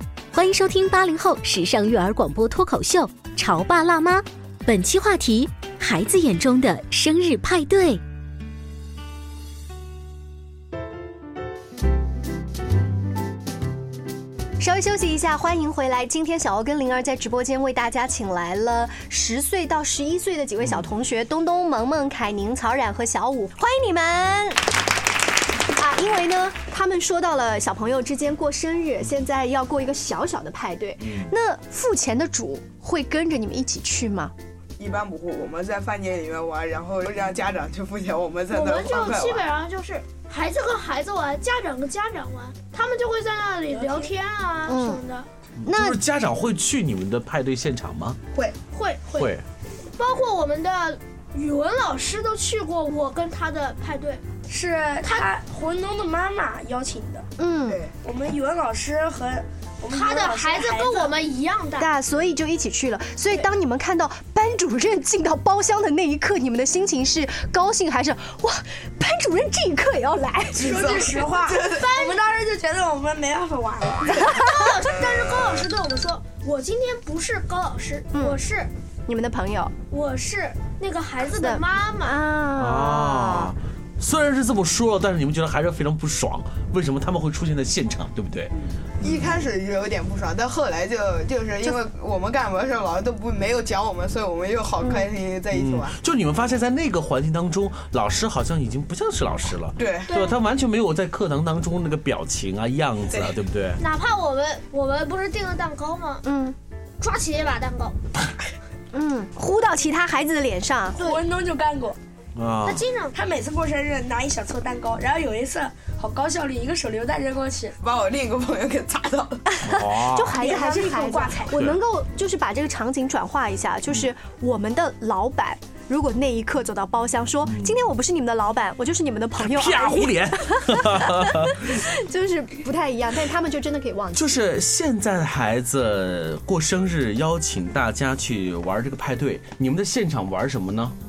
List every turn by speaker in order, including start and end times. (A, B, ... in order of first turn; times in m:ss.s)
0:00.3-0:08.0 A
0:14.6-0:24.6 B
0:25.7-0:34.3 B
0:31.0-0:31.3 C
0:34.8-0:39.5 D
0:38.5-0:45.3 E
0:43.7-0:44.1 F
0:44.7-0:45.0 B
0:45.6-0:48.2 C
0:45.6-0:46.0 B
0:48.7-0:49.2 E
0:49.1-0:49.4 C
0:50.0-0:54.2 E
0:54.5-0:57.3 F
0:55.0-0:55.3 E
0:57.4-0:57.8 B
0:57.7-0:57.9 D
0:58.0-1:01.2 F
0:59.9-1:01.9 E
1:01.8-1:10.8 B
1:10.6-1:11.8 D
1:10.6-1:14.2 F
1:11.8-1:12.2 E
1:14.2-1:18.7 E
1:18.1-1:18.4 B
1:19.1-1:19.7 B
1:19.9-1:22.2 E
1:21.2-1:23.5 B
1:22.6-1:29.4 C
1:29.0-1:36.0 D
1:35.5-1:43.8 C
1:39.8-1:40.1 D
1:40.1-1:40.4 E
1:43.8-1:46.2 E
1:46.2-1:46.6 B
1:47.0-1:48.0 E
1:48.9-1:51.0 B
1:51.0-1:51.2 E
1:51.0-1:52.0 F
1:52.4-1:52.9 C
1:52.6-1:53.1 E
1:53.1-1:57.8 F
1:57.8-1:59.4 D
1:59.5-2:14.4 B
1:59.6-2:00.4 C
2:00.3-2:01.6 F
2:01.5-2:01.8 C
2:07.4-2:07.8 C
2:09.4-2:11.8 C
2:14.1-2:21.0 C